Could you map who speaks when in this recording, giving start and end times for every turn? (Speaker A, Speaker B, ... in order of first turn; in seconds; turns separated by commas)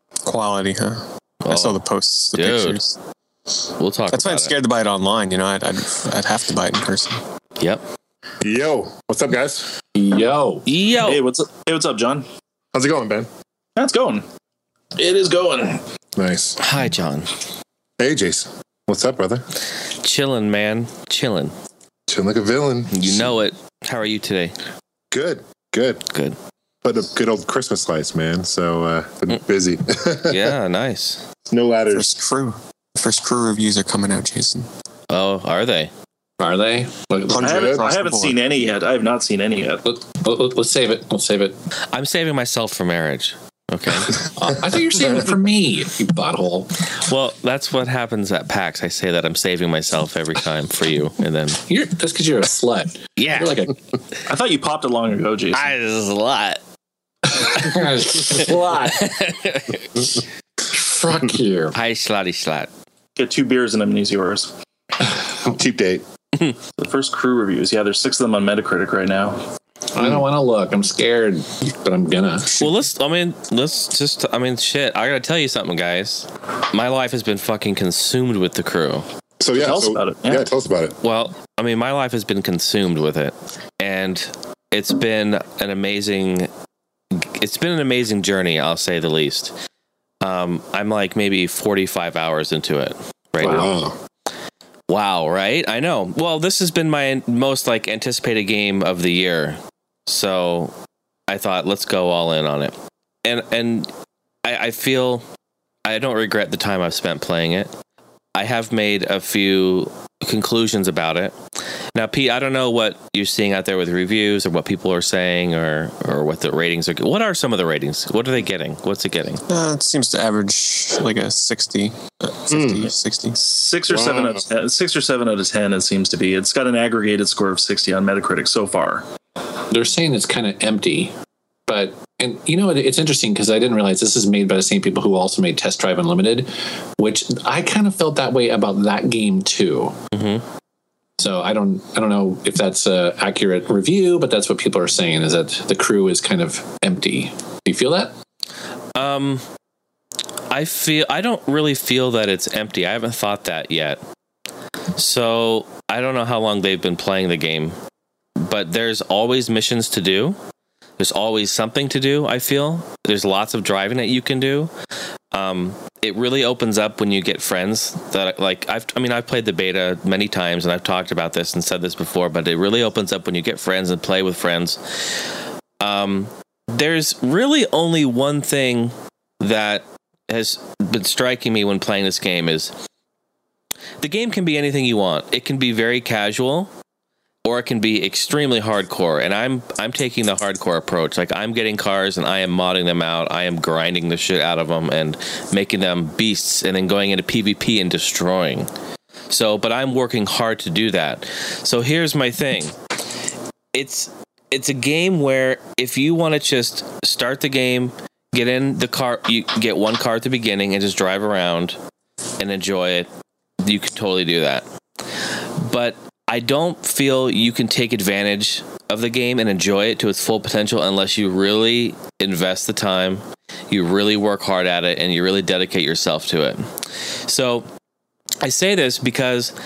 Speaker A: 0.2-3.0, Speaker B: 1.4-2.8, Speaker B: 3.8-4.5, Speaker A: 4.1-7.2, Speaker C: 8.4-9.7, Speaker D: 9.9-10.7, Speaker B: 10.7-11.2, Speaker E: 11.0-12.3, Speaker C: 12.7-13.3, Speaker E: 13.8-14.2, Speaker E: 15.0-15.8, Speaker C: 16.2-16.6, Speaker B: 16.6-17.3, Speaker C: 18.0-19.4, Speaker B: 20.0-21.5, Speaker C: 22.1-23.3, Speaker B: 22.9-24.6, Speaker C: 25.1-26.0, Speaker B: 26.1-26.4, Speaker C: 26.8-30.5, Speaker B: 30.3-31.2, Speaker C: 31.5-32.2, Speaker A: 31.9-34.7, Speaker B: 35.1-35.9, Speaker D: 36.4-37.5, Speaker A: 37.3-38.4, Speaker E: 37.4-39.8, Speaker D: 39.8-41.6, Speaker B: 41.9-44.3, Speaker D: 44.4-46.7, Speaker B: 47.0-51.6, Speaker D: 51.6-53.8, Speaker B: 53.2-53.6, Speaker E: 54.3-55.7, Speaker B: 55.5-56.6, Speaker D: 57.3-59.0, Speaker B: 57.5-60.0, Speaker D: 60.6-61.8, Speaker B: 61.7-62.7, Speaker E: 63.2-64.5, Speaker C: 65.5-66.0, Speaker E: 66.8-69.4, Speaker D: 70.0-72.7, Speaker B: 72.5-79.1, Speaker C: 79.4-81.0, Speaker E: 79.6-80.5, Speaker B: 81.0-86.5, Speaker B: 87.1-89.5, Speaker B: 90.2-93.7, Speaker C: 93.4-94.0, Speaker B: 94.9-100.7, Speaker B: 101.3-103.9, Speaker B: 104.4-105.2, Speaker B: 105.9-107.7, Speaker B: 108.4-111.4, Speaker B: 112.0-119.4, Speaker A: 119.5-123.4, Speaker C: 122.5-122.8, Speaker E: 123.4-129.1, Speaker C: 123.9-124.4, Speaker D: 129.7-131.1, Speaker D: 131.7-139.9, Speaker B: 140.1-140.4, Speaker D: 141.2-148.1, Speaker B: 148.9-149.4, Speaker B: 150.5-154.0, Speaker B: 155.0-157.8, Speaker B: 158.4-160.4, Speaker B: 161.0-164.7, Speaker B: 165.3-174.8, Speaker B: 175.8-182.7, Speaker B: 184.0-186.7, Speaker B: 187.4-198.7, Speaker B: 199.3-202.8, Speaker B: 203.7-211.8, Speaker B: 212.4-213.1, Speaker B: 213.6-214.7, Speaker B: 215.6-226.7, Speaker B: 227.2-227.7, Speaker B: 228.4-229.5